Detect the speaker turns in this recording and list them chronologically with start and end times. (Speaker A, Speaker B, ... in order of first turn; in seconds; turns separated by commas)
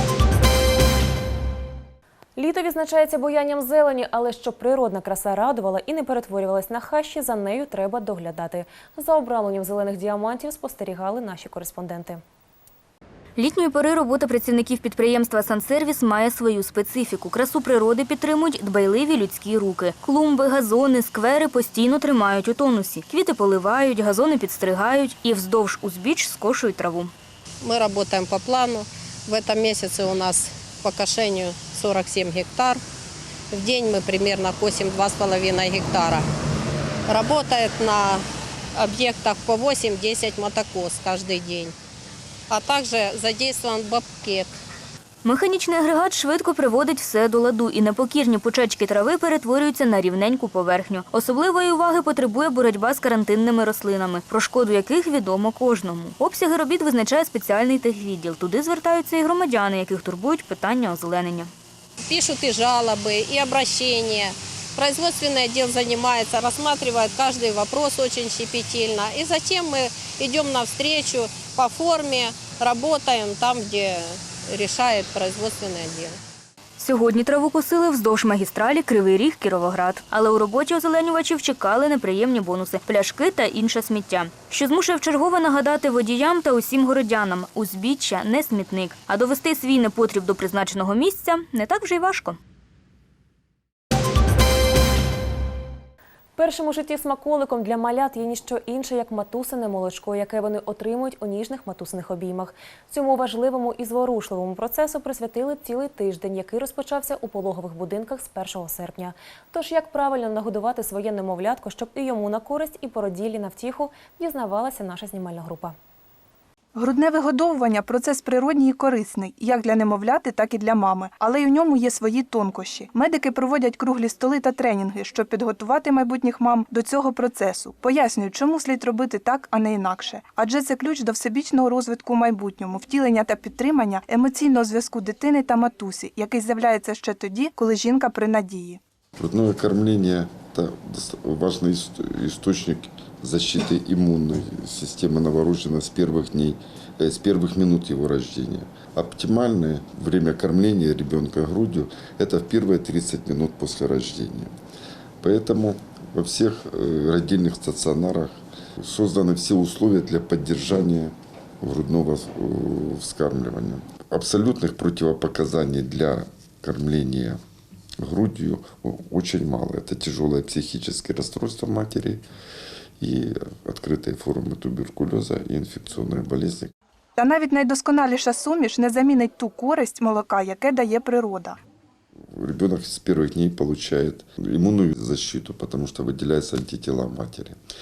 Speaker A: 2.4-12.2, Speaker B: 13.3-27.1, Speaker C: 27.6-32.8, Speaker C: 33.5-36.2, Speaker C: 37.1-38.2, Speaker C: 38.8-41.7, Speaker C: 42.5-44.5, Speaker B: 45.2-61.5, Speaker C: 62.1-76.1, Speaker B: 76.8-92.4, Speaker A: 96.4-115.7, Speaker D: 116.8-138.8, Speaker E: 139.2-154.5, Speaker E: 155.2-167.4, Speaker E: 168.0-172.2, Speaker E: 173.0-176.7, Speaker D: 177.2-181.6, Speaker E: 182.3-187.6